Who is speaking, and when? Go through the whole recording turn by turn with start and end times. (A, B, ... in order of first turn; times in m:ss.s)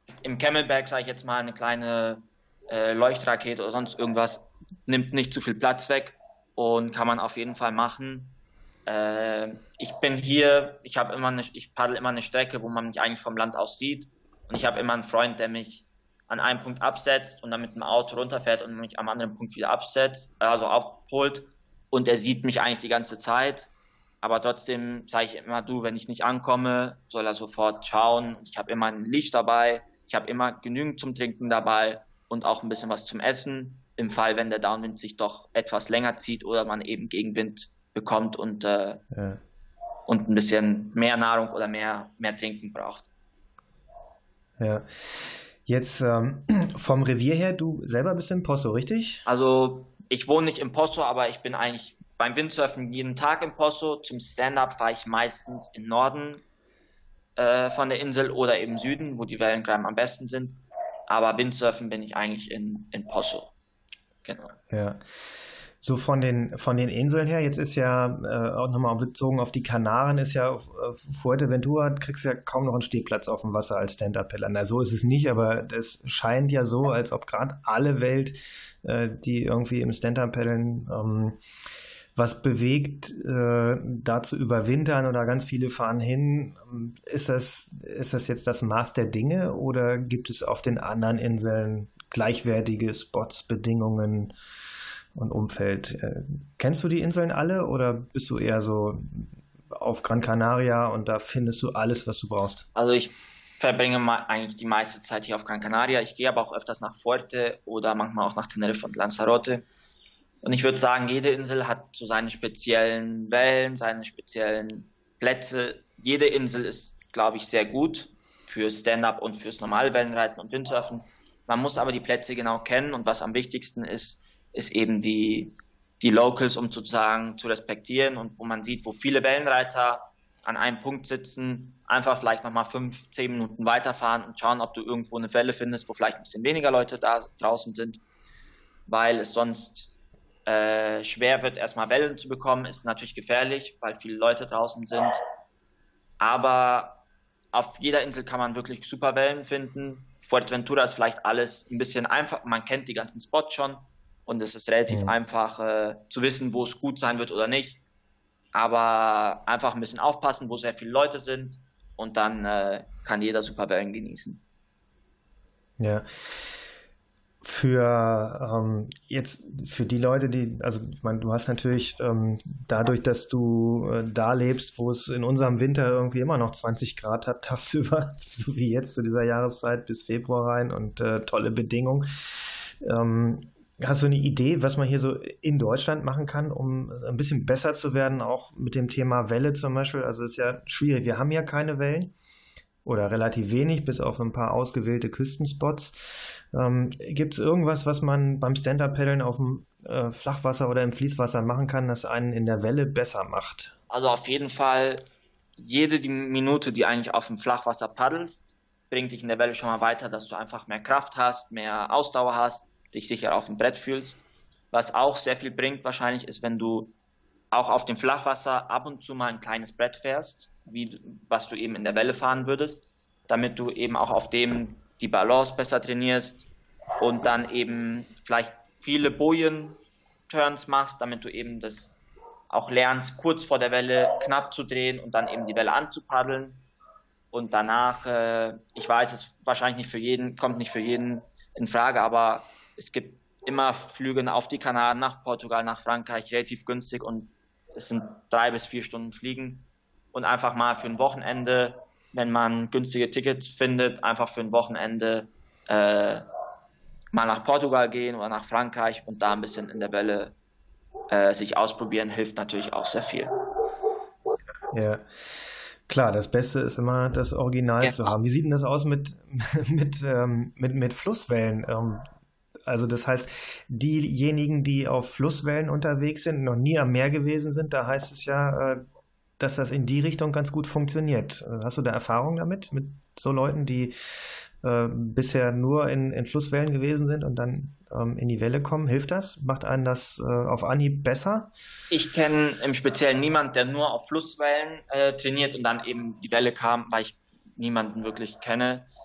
0:00.2-0:23.7 A
0:24.2-0:39.0 A
0:39.1-0:39.4 B
0:40.1-0:43.1 A
0:44.6-0:49.2 B
0:49.3-0:56.4 A
0:57.4-1:03.5 A
1:04.2-1:04.6 A
1:04.7-1:05.0 B
1:05.8-1:21.4 B
1:22.2-1:34.3 B
1:35.2-1:42.7 B
1:42.8-1:49.6 A
1:50.4-2:18.0 A
2:18.9-2:19.9 A
2:20.5-2:25.2 A
2:26.2-2:37.8 A
2:34.9-2:35.2 B
2:38.5-2:44.4 A
2:45.8-2:46.0 B
2:47.4-3:02.1 B
3:02.8-3:12.1 B
3:12.8-3:16.0 B
3:16.5-3:23.7 B
3:23.9-3:25.0 A
3:25.6-3:37.0 A
3:37.5-3:52.0 A
3:52.5-3:56.6 A
3:57.3-4:16.3 A
4:17.1-4:20.4 A
4:21.1-4:23.3 A
4:24.7-4:32.0 B
4:27.8-4:28.1 A
4:32.7-4:38.8 B
4:39.4-4:43.9 B
4:44.6-4:51.5 B
4:51.9-4:58.9 A